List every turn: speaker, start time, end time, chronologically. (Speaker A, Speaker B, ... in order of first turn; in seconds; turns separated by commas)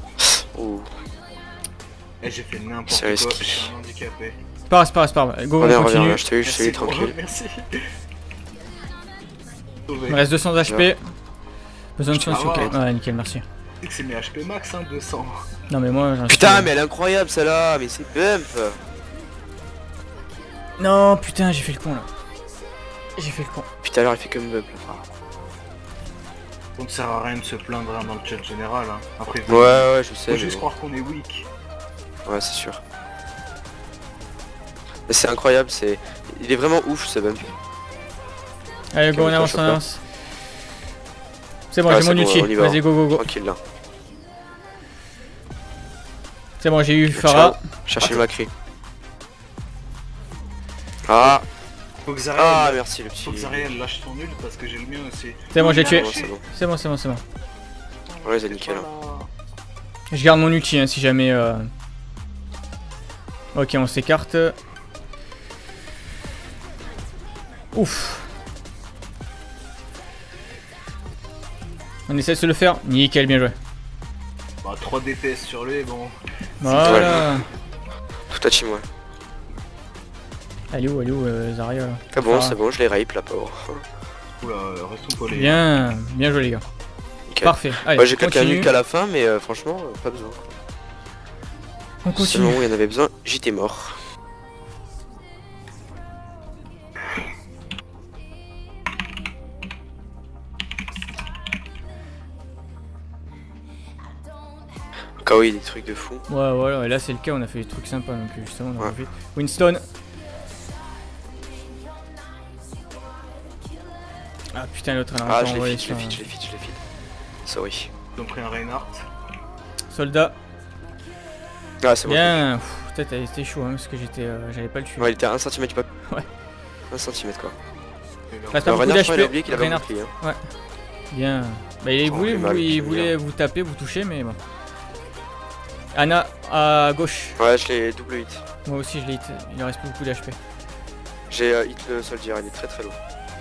Speaker A: 0.2-0.9, Speaker B: 2.2-4.3, Speaker A: 2.9-3.7, Speaker C: 4.7-6.2, Speaker A: 5.6-7.2, Speaker B: 6.4-7.7, Speaker B: 9.9-10.2, Speaker C: 10.1-11.0, Speaker A: 10.6-10.9, Speaker C: 12.0-13.4, Speaker B: 12.1-12.8, Speaker B: 13.8-15.3, Speaker C: 15.7-16.7, Speaker A: 16.3-18.8, Speaker C: 20.8-22.1, Speaker C: 23.2-23.6, Speaker A: 23.8-25.0, Speaker B: 26.8-31.5, Speaker A: 29.5-30.6, Speaker A: 32.2-32.8, Speaker A: 35.1-37.5, Speaker C: 38.9-40.0, Speaker A: 39.1-39.8, Speaker C: 41.7-43.2, Speaker A: 41.8-43.6, Speaker C: 46.6-47.5, Speaker A: 47.1-48.5, Speaker A: 51.0-51.5, Speaker B: 52.0-56.3, Speaker A: 52.3-53.7, Speaker C: 55.5-57.2, Speaker A: 55.8-56.4, Speaker B: 58.1-59.3, Speaker A: 58.2-58.9, Speaker C: 60.1-61.7, Speaker C: 63.5-64.5, Speaker C: 67.7-68.3, Speaker C: 72.1-73.5, Speaker B: 74.6-77.3, Speaker C: 76.6-77.5, Speaker A: 76.8-77.3, Speaker A: 78.3-78.8, Speaker C: 80.7-82.5, Speaker A: 82.1-83.8, Speaker B: 84.4-85.6, Speaker C: 85.3-86.6, Speaker A: 87.3-90.4, Speaker C: 87.4-88.7, Speaker C: 92.0-92.7, Speaker A: 92.1-94.0, Speaker A: 105.2-106.2, Speaker C: 106.3-109.8, Speaker C: 114.5-116.2, Speaker A: 115.2-116.8, Speaker A: 117.4-117.9, Speaker B: 118.2-119.0, Speaker C: 119.9-120.3, Speaker A: 121.8-122.4, Speaker C: 122.0-125.1, Speaker A: 125.0-125.8, Speaker A: 126.9-127.5, Speaker B: 128.3-128.8, Speaker C: 128.5-130.4, Speaker A: 128.6-130.1, Speaker C: 131.1-134.4, Speaker A: 132.0-133.1, Speaker C: 135.9-137.4, Speaker A: 137.4-138.4, Speaker C: 138.6-140.4, Speaker A: 141.3-143.0